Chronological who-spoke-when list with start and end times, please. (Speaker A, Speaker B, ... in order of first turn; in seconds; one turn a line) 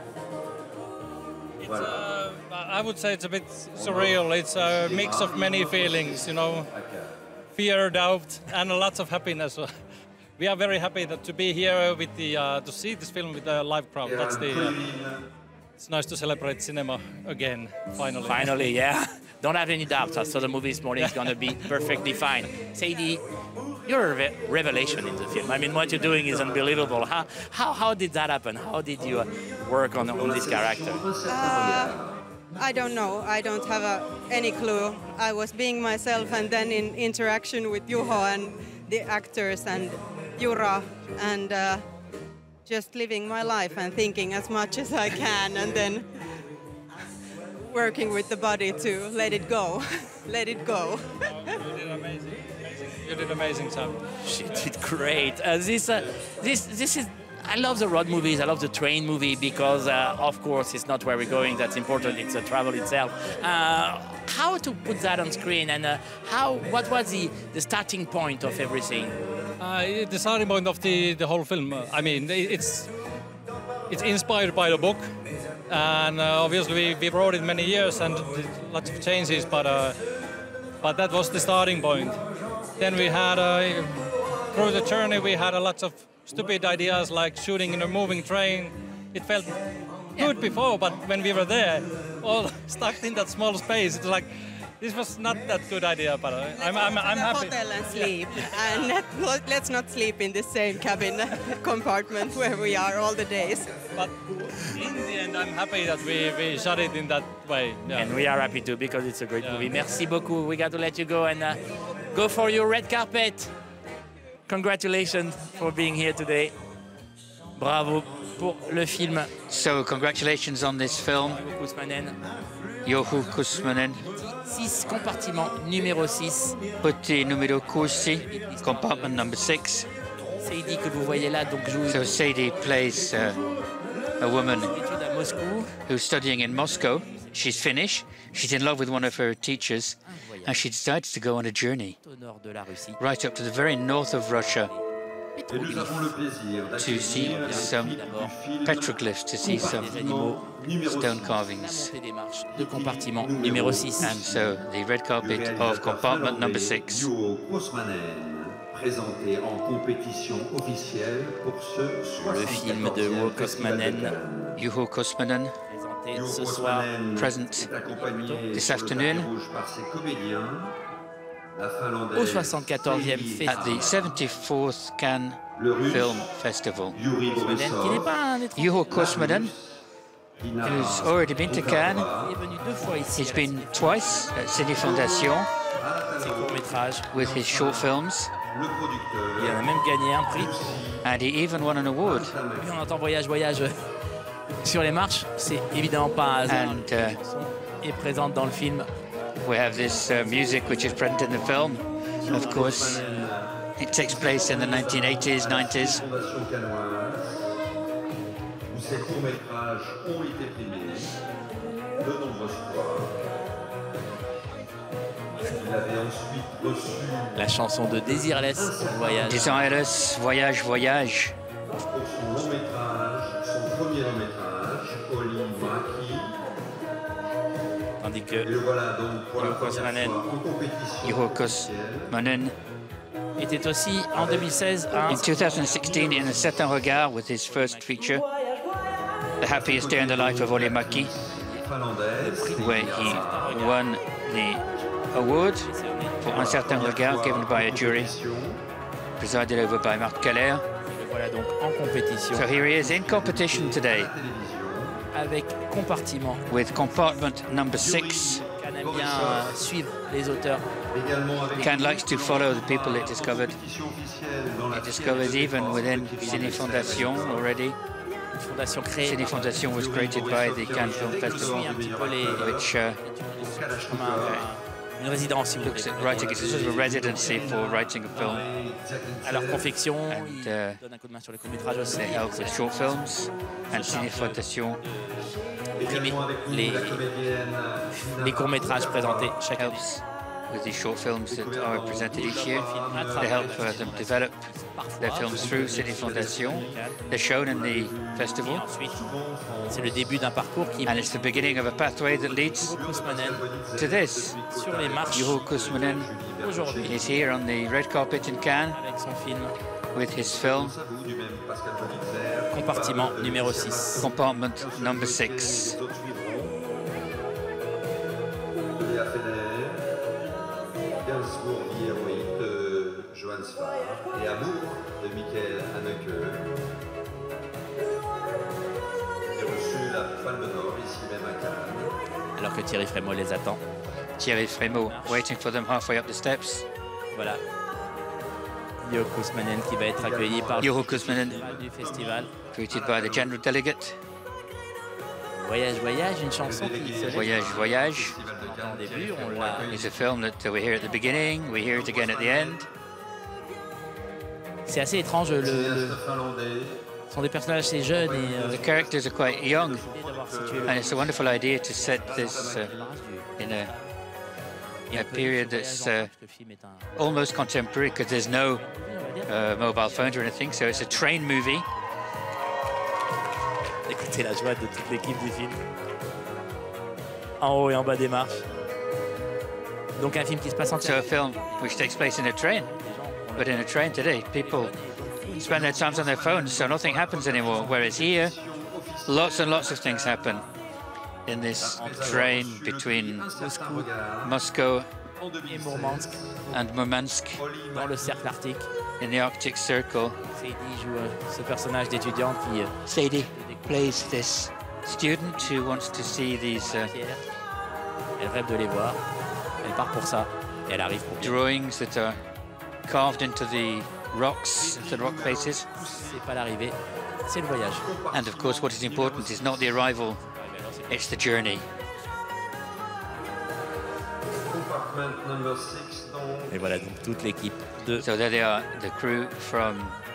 Speaker A: 1.6-6.7
Speaker B: 1.6-2.0
Speaker B: 3.7-7.2
Speaker A: 7.6-9.7
Speaker A: 10.4-14.8
Speaker B: 14.0-15.3
Speaker A: 15.8-18.6
Speaker C: 18.3-23.2
Speaker A: 21.0-21.5
Speaker C: 23.9-31.1
Speaker B: 25.9-27.1
Speaker B: 30.0-32.2
Speaker D: 31.3-32.0
Speaker D: 32.5-41.8
Speaker D: 42.7-46.1
Speaker D: 47.6-51.6
Speaker A: 51.4-54.0
Speaker C: 54.2-69.2
Speaker A: 69.6-72.9
Speaker A: 73.9-75.1
Speaker A: 75.7-80.0
Speaker A: 80.8-82.2
Speaker A: 82.8-84.0
Speaker A: 84.5-89.6
Speaker A: 90.1-98.9
Speaker D: 96.5-103.7
Speaker A: 104.0-108.1
Speaker C: 107.9-111.6
Speaker A: 109.4-109.7
Speaker C: 112.1-113.5
Speaker C: 114.5-116.5
Speaker C: 117.5-119.3
Speaker E: 119.5-121.4
Speaker C: 121.2-122.2
Speaker E: 122.8-124.1
Speaker C: 124.1-126.6
Speaker E: 126.8-129.9
Speaker C: 128.1-129.2
Speaker C: 130.4-132.2
Speaker E: 131.9-133.4
Speaker E: 134.2-134.7
Speaker C: 134.6-135.8
Speaker E: 135.9-142.0
Speaker C: 137.0-137.8
Speaker C: 140.1-140.7
Speaker C: 142.0-143.0
Speaker E: 143.0-144.7
Speaker C: 144.5-144.8
Speaker C: 145.4-146.2
Speaker B: 145.5-151.6
Speaker E: 146.8-147.9
Speaker C: 147.1-148.3
Speaker E: 148.6-149.9
Speaker C: 149.4-150.4
Speaker E: 150.8-151.9
Speaker C: 151.6-154.2
Speaker B: 152.5-154.6
Speaker E: 154.0-157.1
Speaker B: 155.2-164.6
Speaker C: 162.2-164.2
Speaker E: 164.6-165.6
Speaker C: 165.7-166.9
Speaker B: 166.1-170.8
Speaker E: 167.2-167.7
Speaker C: 167.6-168.5
Speaker E: 168.5-169.3
Speaker B: 171.5-174.1
Speaker C: 172.1-173.9
Speaker E: 173.4-177.0
Speaker B: 175.6-176.3
Speaker B: 176.9-178.2
Speaker C: 177.4-179.1
Speaker E: 178.6-179.5
Speaker B: 178.9-179.8
Speaker B: 180.4-182.4
Speaker E: 180.6-182.1
Speaker C: 182.1-184.5
Speaker E: 183.2-185.5
Speaker B: 184.8-191.1
Speaker C: 186.2-187.1
Speaker E: 187.1-188.3
Speaker C: 189.4-190.8
Speaker E: 191.0-192.4
Speaker B: 192.0-192.8
Speaker C: 192.6-193.9
Speaker C: 194.5-198.9
Speaker E: 196.4-197.2
Speaker E: 199.4-203.0
Speaker C: 200.1-201.2
Speaker B: 202.2-207.5
Speaker C: 202.2-203.3
Speaker E: 203.8-206.0
Speaker B: 208.7-211.2
Speaker B: 212.0-213.2
Speaker B: 215.4-219.8
Speaker C: 217.3-219.5
Speaker E: 219.3-221.3
Speaker B: 221.9-226.4
Speaker C: 228.0-228.5
Speaker B: 228.4-232.1
Speaker C: 229.4-230.3
Speaker E: 231.0-232.6
Speaker C: 233.4-236.0
Speaker B: 234.1-236.9
Speaker E: 235.1-238.2
Speaker C: 236.9-238.1
Speaker E: 239.4-241.1
Speaker B: 239.5-243.5
Speaker C: 241.3-243.8
Speaker E: 242.6-245.7
Speaker C: 245.6-246.7
Speaker E: 246.2-248.1
Speaker B: 246.3-248.6
Speaker E: 249.2-250.6
Speaker C: 250.9-252.5
Speaker E: 252.3-254.1
Speaker B: 252.7-255.0
Speaker C: 255.1-256.5
Speaker E: 256.5-258.4
Speaker B: 257.8-259.7
Speaker C: 258.6-260.6
Speaker B: 260.9-267.5
Speaker E: 261.5-263.6
Speaker E: 264.7-267.8
Speaker C: 266.2-267.4
Speaker C: 268.4-269.6
Speaker E: 269.0-271.7
Speaker B: 269.6-272.7
Speaker C: 270.3-277.5
Speaker E: 272.3-273.0
Speaker B: 273.4-274.4
Speaker E: 274.2-274.5
Speaker E: 275.6-278.5
Speaker B: 276.1-279.7
Speaker C: 279.2-282.9
Speaker E: 280.1-280.8
Speaker E: 281.9-284.8
Speaker C: 283.7-285.3
Speaker B: 285.8-289.4
Speaker C: 285.8-287.0
Speaker C: 288.1-289.8
Speaker E: 289.6-292.6
Speaker B: 291.3-293.9
Speaker C: 292.1-297.0
Speaker E: 293.2-294.4
Speaker E: 295.0-298.6
Speaker B: 295.2-296.8
Speaker B: 297.4-300.3
Speaker C: 298.4-299.0
Speaker C: 299.7-301.2
Speaker E: 300.9-302.8
Speaker C: 302.1-303.4
Speaker B: 302.2-307.1
Speaker E: 303.8-304.4
Speaker C: 304.5-305.4
Speaker E: 305.1-306.1
Speaker C: 306.4-307.2
Speaker E: 306.8-308.8
Speaker C: 308.7-309.6
Speaker E: 309.9-310.8
Speaker B: 310.1-316.6
Speaker C: 312.5-314.1
Speaker E: 314.0-315.8
Speaker B: 318.8-319.9
Speaker B: 321.0-326.5
Speaker B: 329.3-332.0
Speaker C: 332.4-333.6
Speaker E: 334.2-336.7
Speaker C: 334.6-335.3
Speaker C: 337.1-337.4
Speaker C: 338.8-342.3
Speaker B: 339.9-343.3
Speaker E: 340.6-341.4
Speaker E: 342.5-344.0
Speaker C: 345.3-349.9
Speaker B: 346.4-350.1
Speaker E: 347.0-348.2
Speaker E: 349.6-352.7
Speaker C: 350.8-351.4
Speaker B: 351.7-352.7
Speaker C: 354.7-356.0
Speaker B: 355.4-356.9
Speaker C: 357.1-358.7
Speaker B: 358.0-361.2
Speaker E: 358.5-359.9
Speaker C: 359.8-363.9
Speaker E: 360.7-362.7
Speaker B: 361.9-363.0
Speaker E: 363.4-363.7
Speaker C: 364.9-367.0
Speaker E: 364.9-366.1
Speaker E: 367.0-368.6
Speaker C: 368.3-371.2
Speaker E: 369.3-371.7
Speaker C: 373.9-375.6
Speaker C: 377.4-378.4
Speaker C: 380.0-385.6
Speaker E: 380.8-382.7
Speaker E: 383.4-384.7
Speaker E: 385.3-388.3
Speaker B: 385.3-390.5
Speaker E: 389.1-390.4
Speaker E: 391.3-393.3
Speaker B: 391.6-394.4
Speaker C: 391.7-392.4
Speaker C: 393.3-393.9
Speaker E: 394.2-394.9
Speaker B: 395.2-396.7
Speaker C: 395.4-396.2
Speaker E: 396.5-397.4
Speaker B: 397.4-398.4
Speaker C: 397.7-398.7
Speaker E: 399.0-400.2
Speaker C: 400.3-404.3
Speaker E: 402.9-406.9
Speaker C: 405.0-405.6
Speaker C: 406.1-407.2
Speaker C: 408.2-409.0
Speaker C: 409.6-411.4
Speaker E: 411.2-412.2
Speaker E: 412.9-415.7
Speaker B: 414.6-416.3
Speaker C: 416.0-417.9
Speaker B: 417.8-419.9
Speaker E: 418.1-420.2
Speaker C: 420.2-421.4
Speaker E: 420.9-421.7
Speaker B: 424.5-426.6
Speaker C: 426.5-428.1
Speaker E: 428.0-430.0